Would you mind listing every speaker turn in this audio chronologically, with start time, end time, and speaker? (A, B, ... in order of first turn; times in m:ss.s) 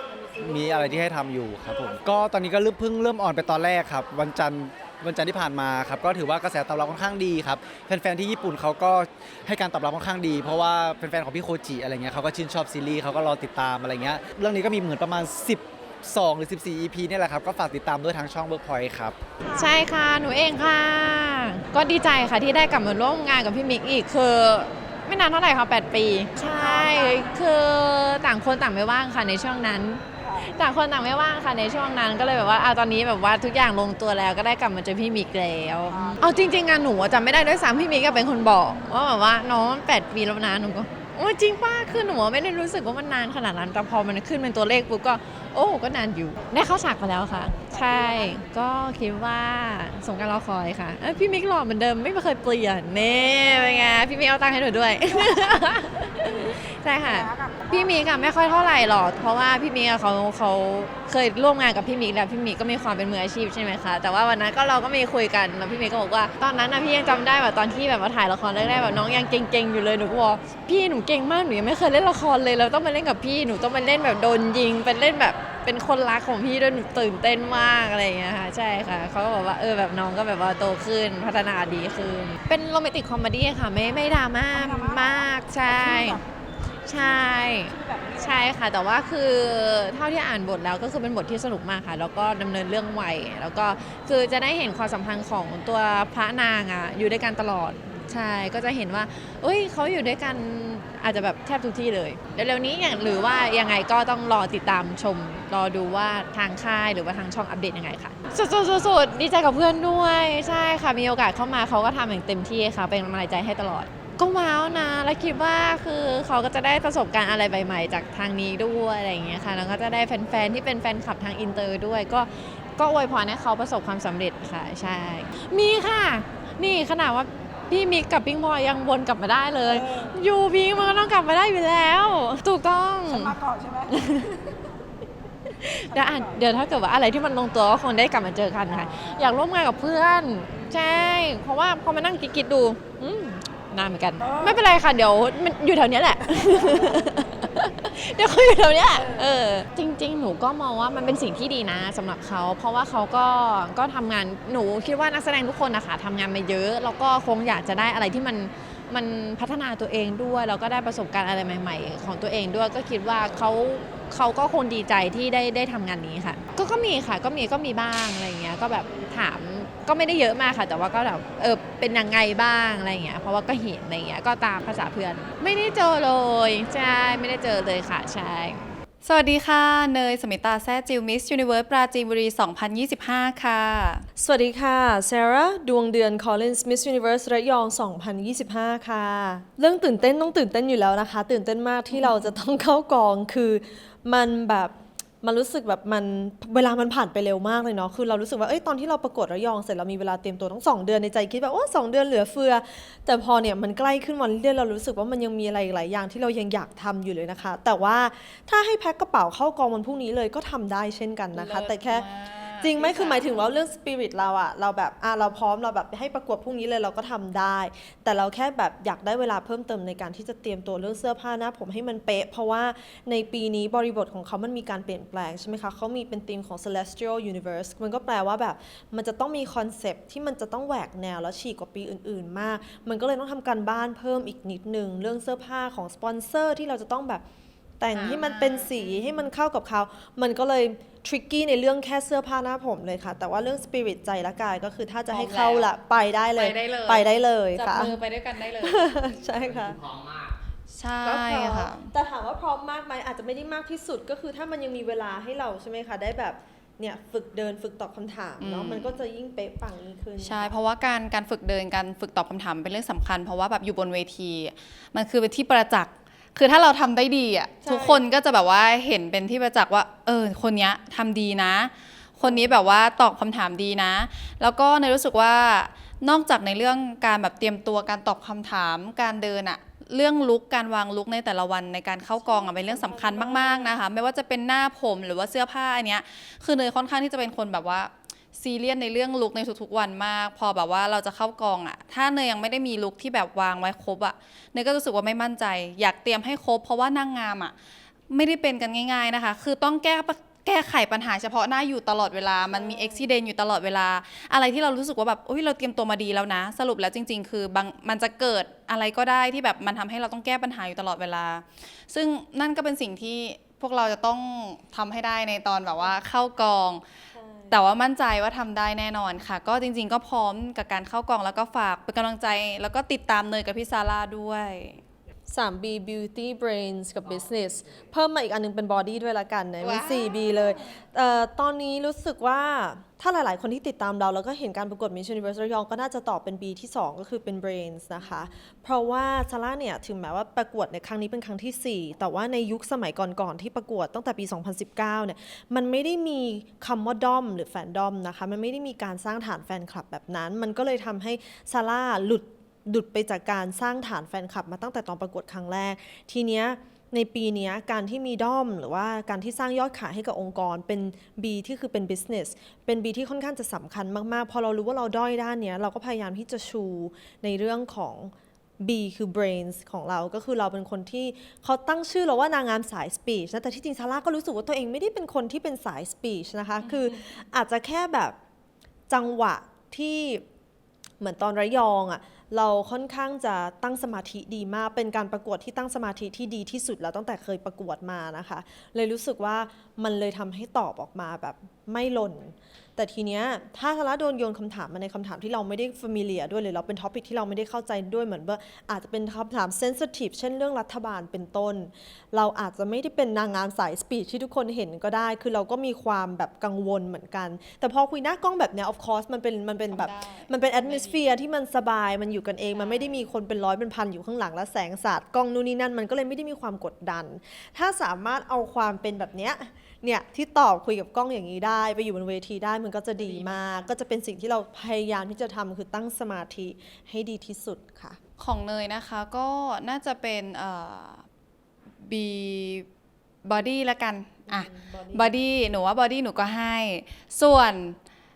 0:00.3-0:19.2 A
0:19.5-0:19.8 B
0:19.5-1:26.2 C
1:26.8-2:14.4 C
2:15.4-2:58.7 C
2:59.0-3:04.0 D
3:04.2-3:32.0 B
3:11.9-3:12.2 D
3:31.3-3:33.3 D
3:32.6-3:57.2 B
3:57.8-4:08.0 B
3:57.9-3:59.3 D
4:05.1-4:05.7 D
4:06.4-4:09.0 D
4:08.6-4:09.8 B
4:10.7-4:11.9 D
4:11.0-4:20.6 B
4:18.4-4:19.0 D
4:20.2-4:57.5 D
4:27.6-4:28.0 B
4:32.2-4:32.7 B
4:42.2-4:43.8 B
4:58.1-5:16.8 D
5:02.4-5:03.1 B
5:17.1-5:17.6 B
5:17.5-5:24.8 D
5:25.3-6:18.2 B
5:29.6-5:30.2 D
6:16.6-6:17.0 D
6:18.9-6:20.2 B
6:21.0-7:08.0 B
6:49.7-6:51.1 D
6:52.5-6:53.1 D
7:03.0-7:03.7 D
7:08.2-7:11.0 D
7:11.8-7:12.7 D
7:13.2-7:17.8 D
7:14.3-7:15.1 B